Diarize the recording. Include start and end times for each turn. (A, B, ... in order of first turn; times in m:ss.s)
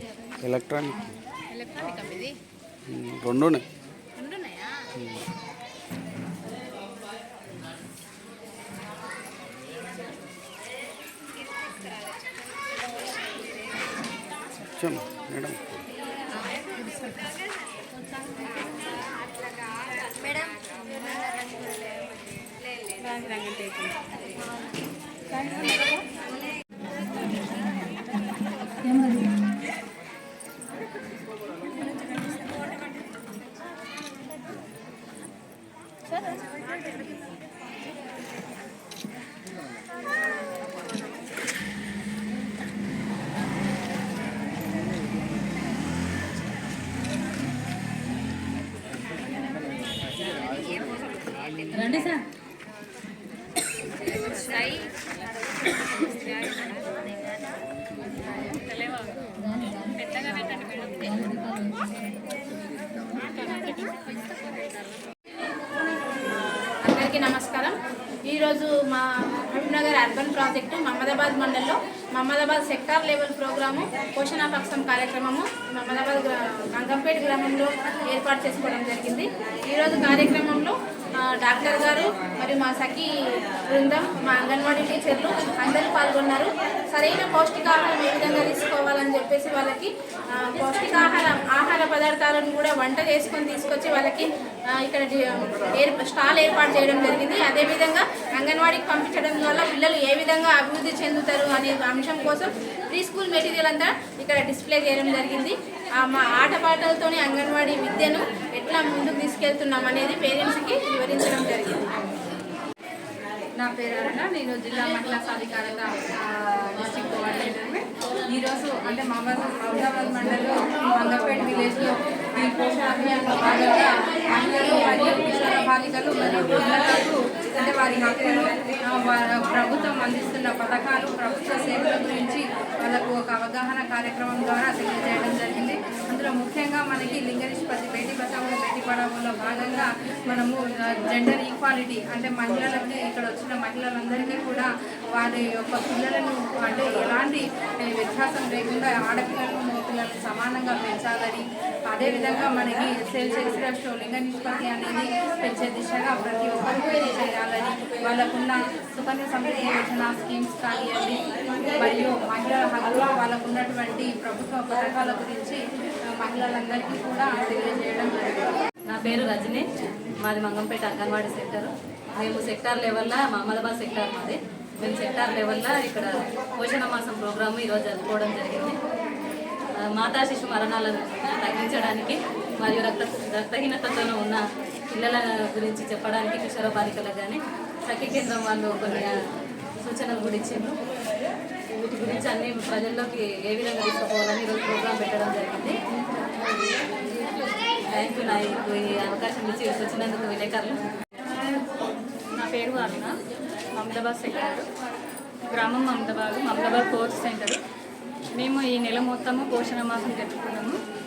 0:00.4-0:01.1 A
0:01.5-0:02.4 B
0:02.9-0:03.7 A
0:04.2-0:04.9 B
0:14.7-0:15.8 A
0:21.2-0:21.8 B
0:22.8-0:24.1 B
0:25.4-0:26.0 B
0:29.0-0:29.3 C
0:51.7-0:52.2 C
0:54.2-0:54.8 C
0:58.4-1:01.1 D
0:59.4-1:00.0 C
1:01.0-1:02.2 C
1:03.6-1:03.9 D
1:06.8-1:51.9 B
1:53.6-2:48.5 E
2:48.9-2:58.8 C
2:59.8-3:09.2 C
3:09.8-3:10.8 C
3:11.7-3:15.8 C
3:17.9-3:20.8 C
3:22.4-3:23.2 D
3:23.7-3:24.7 D
3:25.5-3:27.6 D
3:28.4-3:30.8 D